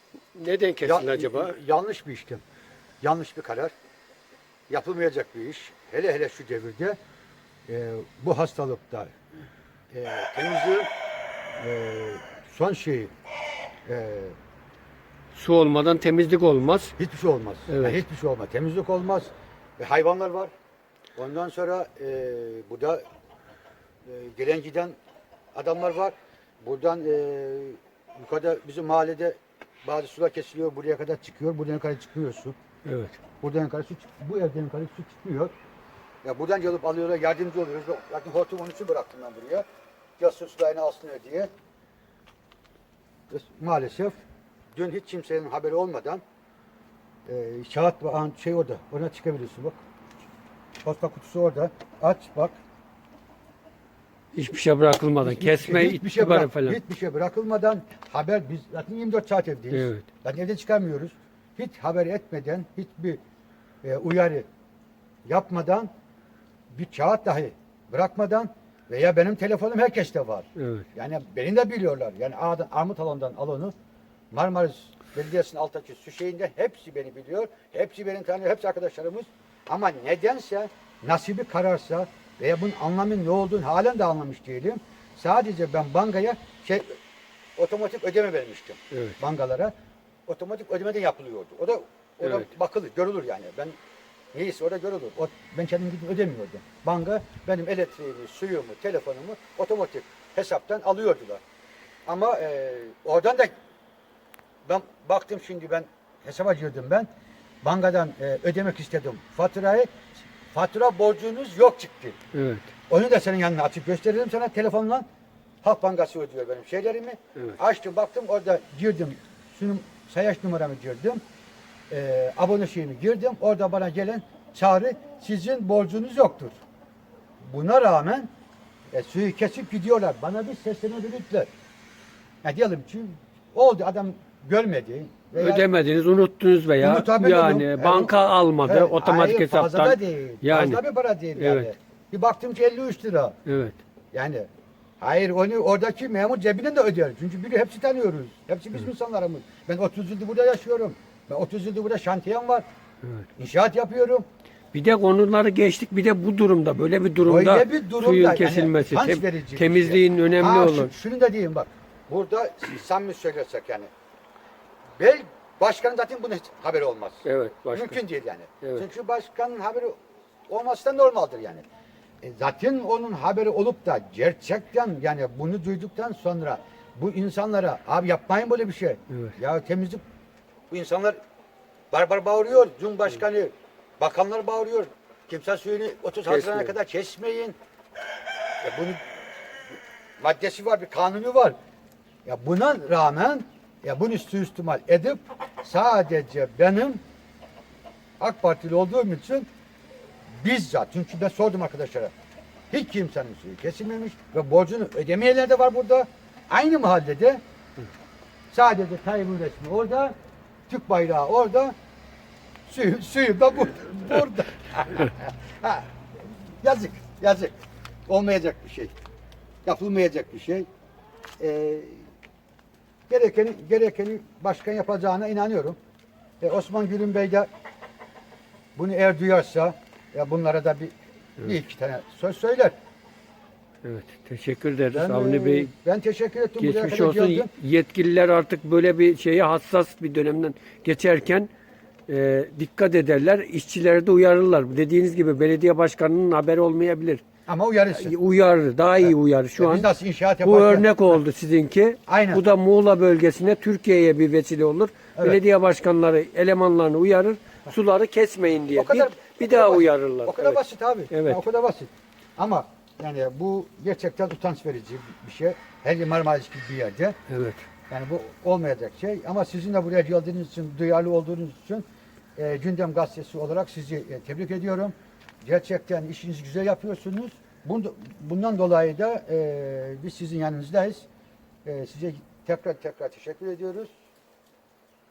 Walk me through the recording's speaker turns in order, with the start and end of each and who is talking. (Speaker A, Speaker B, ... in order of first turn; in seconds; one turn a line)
Speaker A: 0.3-1.6
Speaker B: 0.8-2.4
Speaker B: 3.0-3.7
Speaker B: 4.7-7.0
Speaker B: 7.7-9.1
Speaker B: 9.9-10.9
Speaker B: 11.6-13.1
Speaker B: 13.9-14.4
Speaker A: 15.3-17.0
Speaker B: 17.0-20.5
Speaker A: 17.7-18.0
Speaker B: 21.1-23.0
Speaker B: 24.1-25.0
Speaker B: 25.5-32.6
Speaker A: 32.8-33.2
Speaker B: 33.4-35.5
Speaker B: 36.2-39.6
Speaker B: 40.2-41.5
Speaker B: 43.3-44.2
Speaker B: 44.8-46.2
Speaker B: 47.3-49.8
Speaker B: 50.8-52.6
Speaker A: 54.3-56.8
Speaker B: 55.2-63.2
Speaker A: 59.7-60.0
Speaker B: 63.8-64.5
Speaker B: 65.3-65.9
Speaker B: 66.7-73.7
Speaker A: 70.6-70.9
Speaker B: 74.3-87.0
Speaker B: 87.6-89.7
Speaker B: 90.3-93.8
Speaker A: 92.2-92.5
Speaker B: 94.3-101.4
Speaker B: 102.1-103.5
Speaker B: 104.7-107.1
Speaker B: 107.6-112.2
Speaker A: 112.3-112.7
Speaker B: 112.9-115.0
Speaker B: 115.6-121.2
Speaker B: 121.9-126.6
Speaker B: 127.4-128.3
Speaker B: 128.9-131.5
Speaker B: 132.4-135.7
Speaker A: 135.3-140.8
Speaker B: 136.8-143.4
Speaker A: 141.4-141.7
Speaker A: 143.4-143.8
Speaker B: 144.1-144.5
Speaker B: 145.0-152.7
Speaker B: 153.4-154.2
Speaker A: 154.7-160.9
Speaker B: 157.2-163.9
Speaker B: 165.0-171.6
Speaker A: 167.2-168.0
Speaker B: 172.2-180.0
Speaker B: 180.7-181.2
Speaker B: 181.9-187.6
Speaker A: 186.3-186.7
Speaker B: 188.6-189.0
Speaker B: 190.2-191.6
Speaker B: 192.2-197.0
Speaker B: 198.2-199.5
Speaker B: 200.3-202.1
Speaker B: 202.7-207.4
Speaker B: 208.5-210.1
Speaker B: 210.7-211.7
Speaker B: 212.7-215.9
Speaker B: 216.5-217.5
Speaker B: 218.1-218.9
Speaker B: 219.7-220.7
Speaker B: 221.4-222.1
Speaker B: 223.1-225.8
Speaker B: 226.4-227.5
Speaker B: 228.8-232.7
Speaker A: 233.8-235.7
Speaker B: 234.9-237.5
Speaker A: 236.6-241.5
Speaker A: 242.1-247.2
Speaker B: 247.5-248.2
Speaker A: 247.9-249.9
Speaker B: 249.0-251.2
Speaker A: 250.4-260.6
Speaker B: 252.1-252.4
Speaker B: 255.2-255.4
Speaker B: 258.7-267.2
Speaker A: 261.1-261.4
Speaker A: 267.3-267.6
Speaker B: 267.9-271.9
Speaker B: 272.4-281.1
Speaker B: 281.6-283.9